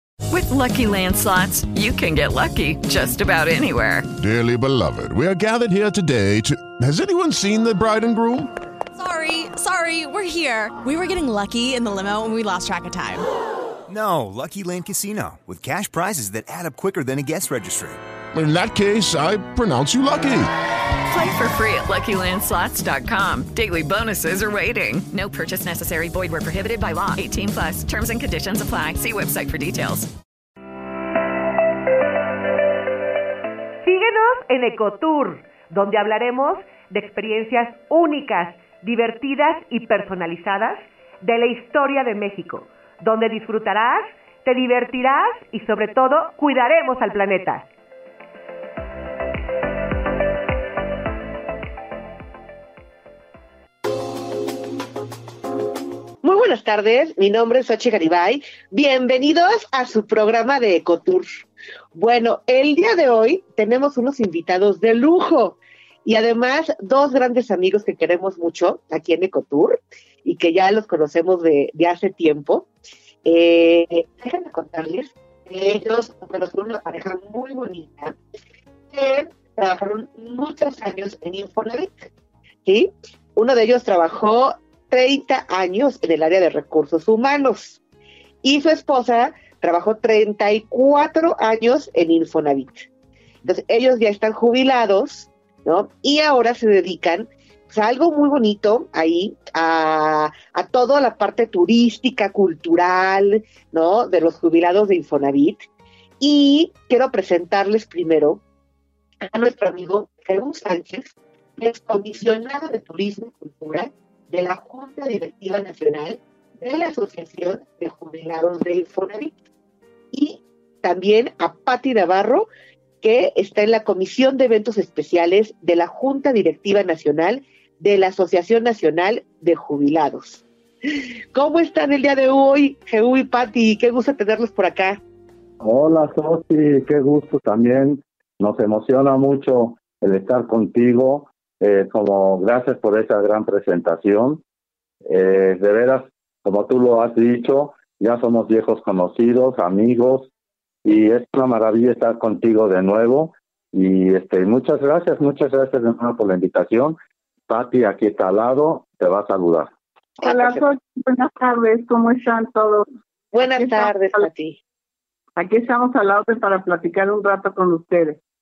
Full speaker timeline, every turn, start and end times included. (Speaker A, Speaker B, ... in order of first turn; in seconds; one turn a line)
Speaker A: 0.3-4.1
Speaker B: 4.2-8.5
Speaker C: 8.9-13.2
Speaker D: 13.9-18.0
Speaker B: 18.3-20.5
Speaker A: 21.1-30.1
Speaker E: 33.8-47.7
Speaker F: 56.2-61.3
Speaker F: 61.9-72.7
Speaker F: 73.2-78.2
Speaker F: 78.9-82.1
Speaker F: 82.7-87.8
Speaker F: 88.4-92.9
Speaker F: 93.5-105.7
Speaker F: 106.2-108.4
Speaker F: 109.2-119.3
Speaker F: 120.1-122.5
Speaker F: 123.0-130.4
Speaker F: 131.3-135.0
Speaker G: 135.6-144.4
Speaker G: 145.1-150.3
Speaker G: 150.8-159.7
Speaker F: 160.2-160.6
Speaker H: 160.2-162.9
Speaker F: 163.3-164.6
Speaker H: 163.4-164.2
Speaker H: 165.4-168.2